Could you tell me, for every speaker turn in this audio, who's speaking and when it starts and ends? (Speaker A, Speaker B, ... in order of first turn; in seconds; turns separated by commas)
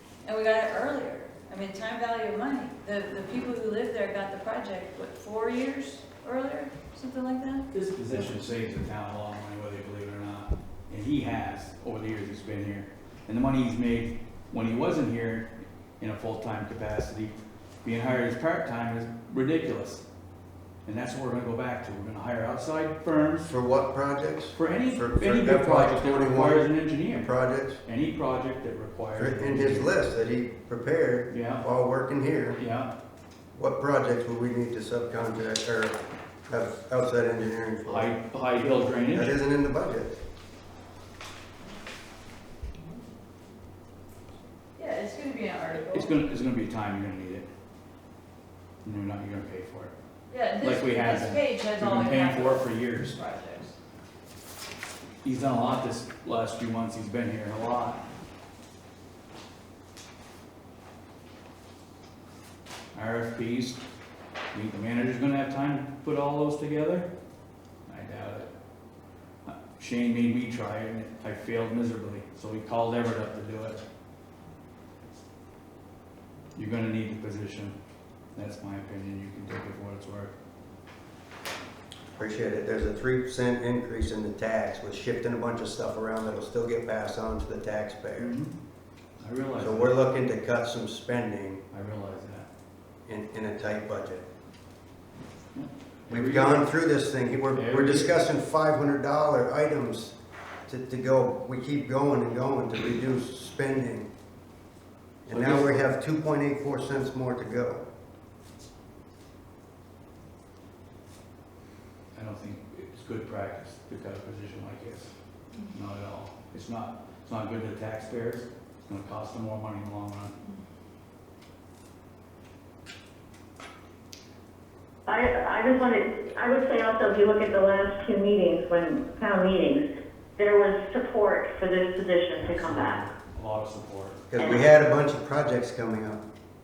Speaker A: 0.2-8.4, Speaker B: 7.7-15.5, Speaker B: 16.0-20.0, Speaker B: 20.9-23.5, Speaker C: 23.4-27.8, Speaker B: 24.5-27.3, Speaker B: 27.8-29.9, Speaker C: 29.2-32.6, Speaker B: 31.3-31.6, Speaker B: 32.5-32.9, Speaker C: 33.5-36.0, Speaker C: 36.5-38.1, Speaker B: 37.8-39.4, Speaker C: 39.1-40.2, Speaker A: 44.8-46.2, Speaker B: 45.9-47.5, Speaker B: 48.8-49.9, Speaker A: 50.3-53.7, Speaker B: 50.6-53.2, Speaker B: 55.2-58.0, Speaker B: 62.9-63.8, Speaker B: 64.5-67.1, Speaker B: 67.9-68.5, Speaker B: 69.5-73.8, Speaker B: 76.5-77.7, Speaker B: 78.3-80.3, Speaker C: 82.2-88.3, Speaker B: 88.2-88.5, Speaker B: 89.2-90.0, Speaker C: 89.6-91.6, Speaker B: 91.7-92.5, Speaker C: 93.1-94.2, Speaker B: 95.5-96.7, Speaker C: 96.1-100.1, Speaker B: 97.5-98.2, Speaker C: 100.7-104.1, Speaker C: 105.2-107.8, Speaker B: 105.3-105.8, Speaker B: 112.1-115.1, Speaker B: 115.7-120.3, Speaker D: 125.1-129.8, Speaker D: 130.4-133.0, Speaker B: 132.4-134.3, Speaker C: 134.3-136.2, Speaker D: 134.4-134.7